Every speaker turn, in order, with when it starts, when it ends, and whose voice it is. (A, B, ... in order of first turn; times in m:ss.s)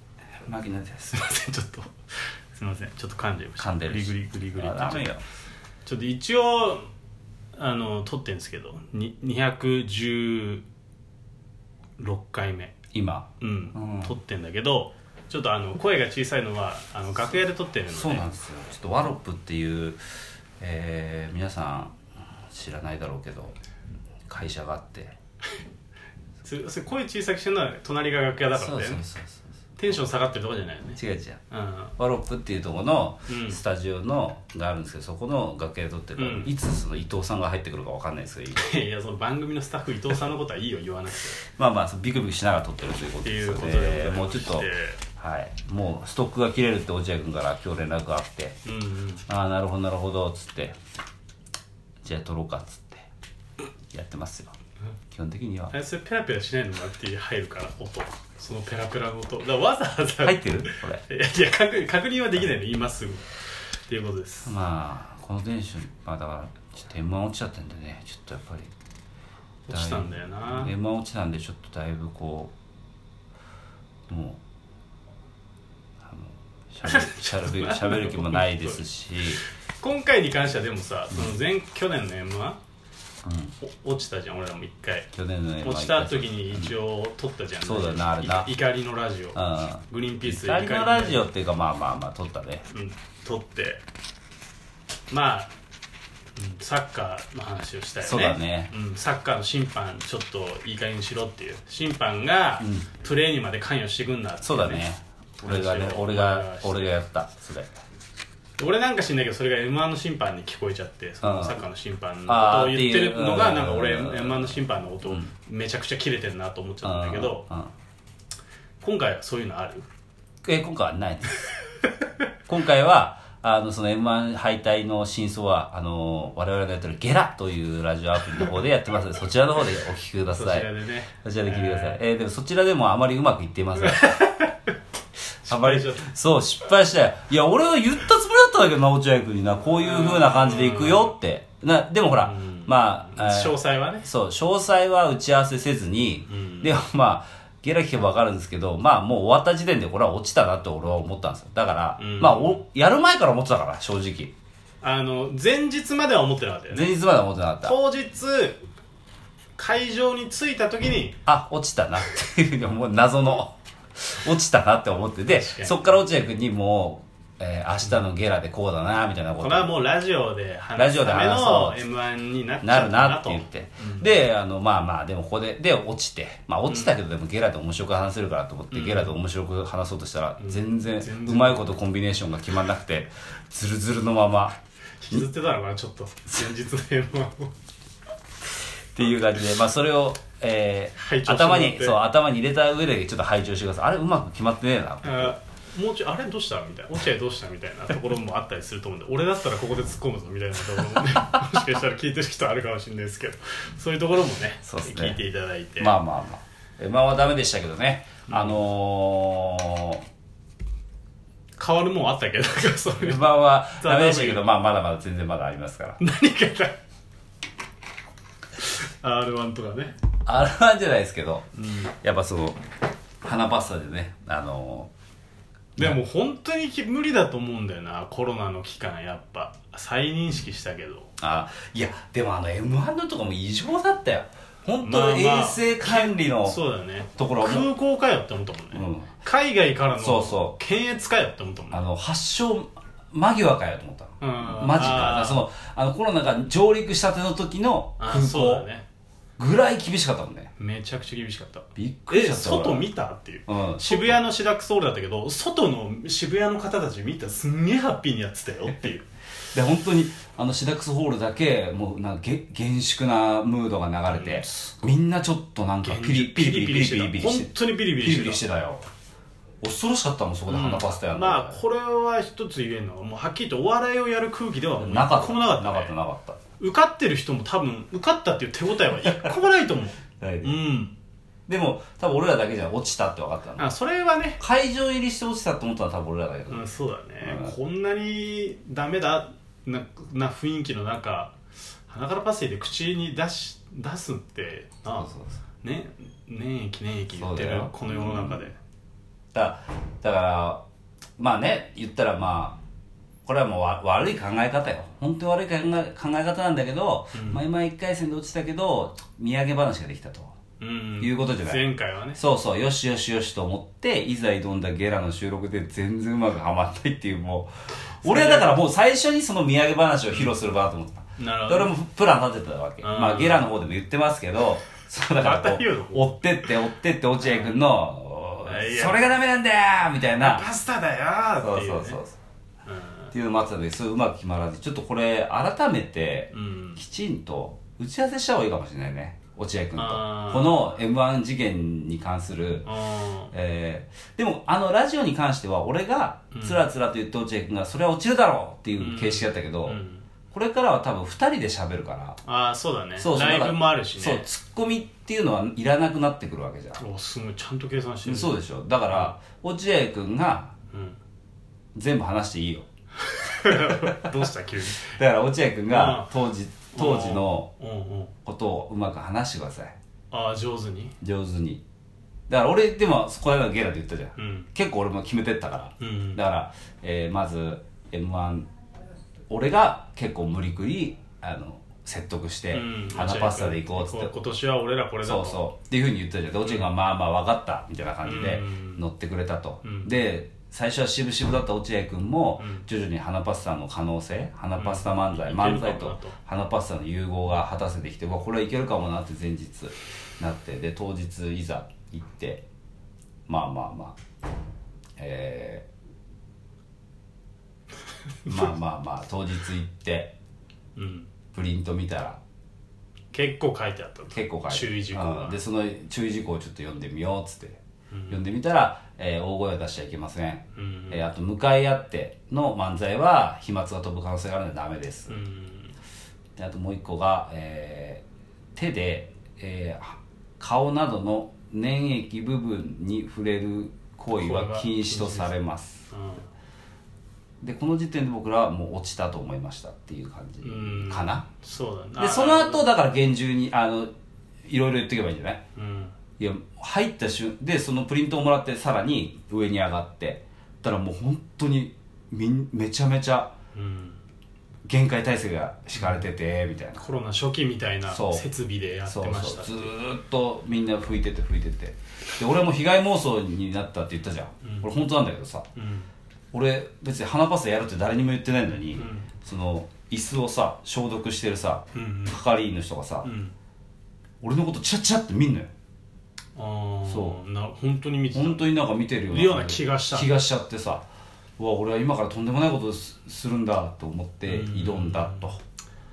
0:00.4-0:01.2 A
0:01.1-0:01.9 B
0:02.5-0:05.1 B
0:03.6-0:05.2 A
0:05.8-0:06.9 B
0:07.5-0:10.6 B
0:12.0-0:12.7 B
0:12.9-0:14.2 A
0:13.4-0:18.2 B
0:17.9-0:20.0 A
0:20.6-0:22.0 A
0:22.5-0:23.5 A
0:24.3-0:25.1 A
0:26.4-0:29.0 B
0:28.5-0:29.4 A
0:29.8-0:31.0 B
0:31.0-0:31.4 A
0:31.5-0:31.9 B
0:32.0-0:38.7 A
0:33.3-0:33.6 B
0:36.2-0:36.5 B
0:38.5-0:41.4 B
0:41.4-0:48.6 A
0:43.2-0:45.0 B
0:48.6-0:49.2 B
0:49.3-0:50.8 A
0:52.0-0:53.1 A
0:53.9-0:54.5 A
0:55.1-0:55.7 A
0:55.7-1:03.2 B
1:00.2-1:01.0 A
1:03.9-1:04.5 B
1:04.4-1:08.7 A
1:09.7-1:10.7 B
1:09.7-1:12.5 A
1:14.1-1:14.4 A
1:16.0-1:19.4 A
1:16.8-1:18.8 B
1:19.8-1:22.6 B
1:21.1-1:21.4 A
1:23.2-1:23.5 A
1:23.6-1:25.1 B
1:25.1-1:26.7 A
1:25.6-1:31.3 B
1:27.6-1:28.5 A
1:29.3-1:32.6 A
1:32.7-1:33.8 B
1:35.1-1:35.5 B
1:36.4-1:44.8 B
1:38.0-1:38.7 A
1:42.6-1:42.9 A
1:44.4-1:47.7 A
1:45.4-1:47.0 B
1:48.6-1:57.4 B
1:51.2-1:51.6 A
1:52.2-1:55.3 A
1:56.8-1:57.7 A
1:58.8-1:59.9 B
2:00.4-2:01.4 A
2:02.5-2:10.7 A
2:10.3-2:12.0 B
2:11.2-2:14.3 A
2:13.8-2:14.6 B
2:15.4-2:16.1 B
2:15.5-2:34.3 A
2:19.8-2:21.1 B
2:22.2-2:24.1 B
2:26.3-2:26.7 B
2:32.0-2:32.6 B
2:34.8-2:36.9 B
2:36.7-2:37.8 A
2:37.6-2:38.6 B
2:39.6-2:41.2 B
2:41.2-2:49.7 A
2:45.2-2:45.9 B
2:49.4-2:54.2 B
2:50.8-2:51.8 A
2:52.6-3:04.6 A
2:58.7-2:59.1 B
3:00.4-3:01.7 B
3:05.0-3:07.5 B
3:08.9-3:15.3 A
3:11.0-3:12.0 B
3:15.0-3:25.9 B
3:24.6-3:25.2 A
3:25.8-3:30.0 A
3:28.3-3:28.6 B
3:31.6-3:34.5 B
3:33.0-3:36.0 A
3:36.0-3:36.8 B
3:38.6-3:39.9 B
3:40.2-3:42.6 A
3:41.6-3:41.9 B
3:43.2-3:44.9 A
3:45.8-3:51.1 B
3:51.2-3:56.6 A
3:54.8-4:01.8 B
3:57.2-3:57.7 A
3:58.7-3:59.2 A
4:00.0-4:00.6 A
4:01.7-4:08.7 A
4:04.2-4:05.4 B
4:08.0-4:08.8 B
4:09.4-4:10.5 A
4:10.6-4:19.0 B
4:11.8-4:12.9 A
4:13.5-4:14.2 A
4:19.5-4:28.8 A
4:24.1-4:24.9 B
4:25.8-4:28.4 B
4:29.6-4:31.6 A
4:30.5-4:35.9 B
4:34.8-4:36.4 A
4:36.6-4:41.0 B
4:39.0-4:39.3 A
4:40.2-4:40.6 A
4:41.5-4:43.7 A
4:43.6-4:44.4 B
4:44.4-4:46.7 A
4:46.5-4:58.6 B
4:47.2-4:47.5 A
4:55.0-4:55.4 A
4:57.1-4:58.4 A
4:59.3-5:00.6 A
5:01.2-5:02.6 A
5:03.2-5:10.3 A
5:07.1-5:07.4 B
5:10.6-5:12.2 B
5:11.0-5:17.5 A
5:18.0-5:18.6 B
5:18.0-5:30.5 A
5:21.2-5:21.7 B
5:22.8-5:23.5 B
5:25.2-5:26.2 B
5:27.2-5:27.6 B
5:28.4-5:29.1 B
5:30.2-5:32.0 B
5:31.4-5:32.2 A
5:32.6-5:33.1 B
5:33.1-5:42.7 A
5:36.3-5:36.8 B
5:39.8-5:40.6 B
5:42.6-5:43.3 B
5:43.3-5:49.8 A
5:46.3-5:46.6 B
5:48.8-5:50.0 B
5:50.3-5:52.2 A
5:52.2-5:54.2 B
5:53.0-5:56.8 A
5:56.8-5:58.4 B
5:58.0-6:00.5 A
6:00.7-6:01.0 B
6:01.7-6:02.6 A
6:03.0-6:05.0 B
6:03.4-6:04.3 A
6:04.8-6:07.5 A
6:05.7-6:06.1 B
6:06.7-6:08.1 B
6:08.2-6:09.7 A
6:10.1-6:10.9 B
6:11.0-6:11.6 A
6:12.3-6:18.5 A
6:14.2-6:14.5 B
6:15.8-6:16.2 B
6:19.3-6:24.1 A
6:22.5-6:25.4 B
6:25.0-6:42.4 A
6:28.0-6:28.8 B
6:29.6-6:29.9 B
6:32.4-6:32.6 B
6:34.6-6:36.2 B
6:43.3-6:44.0 A
6:45.0-6:45.7 A
6:48.2-6:50.1 A
6:50.8-6:51.1 B
6:51.3-6:52.2 A
6:53.1-6:55.4 B
6:54.1-7:05.2 A
6:57.9-6:58.2 B
7:00.6-7:01.0 B
7:05.1-7:05.7 B
7:06.4-7:08.0 A
7:08.6-7:15.9 A
7:14.2-7:15.3 B
7:15.9-7:16.3 B
7:17.4-7:21.2 A
7:20.4-7:22.7 B
7:22.0-7:23.9 A
7:24.4-7:25.4 A
7:25.5-7:25.9 B
7:26.2-7:33.3 A
7:33.5-7:34.0 B
7:34.6-7:36.8 A
7:35.7-7:36.0 B
7:36.8-7:39.7 B
7:37.9-7:38.2 A
7:38.8-7:45.5 A
7:44.4-7:44.7 B
7:45.6-7:45.9 B
7:46.3-7:53.1 A
7:48.8-7:49.1 B
7:51.7-7:52.2 B
7:53.0-7:53.3 B
7:54.2-7:55.5 A
7:56.4-7:58.5 B
7:56.8-7:57.2 A
7:58.1-8:00.8 A
7:59.1-8:00.1 B
8:01.4-8:05.4 A
8:04.2-8:05.3 B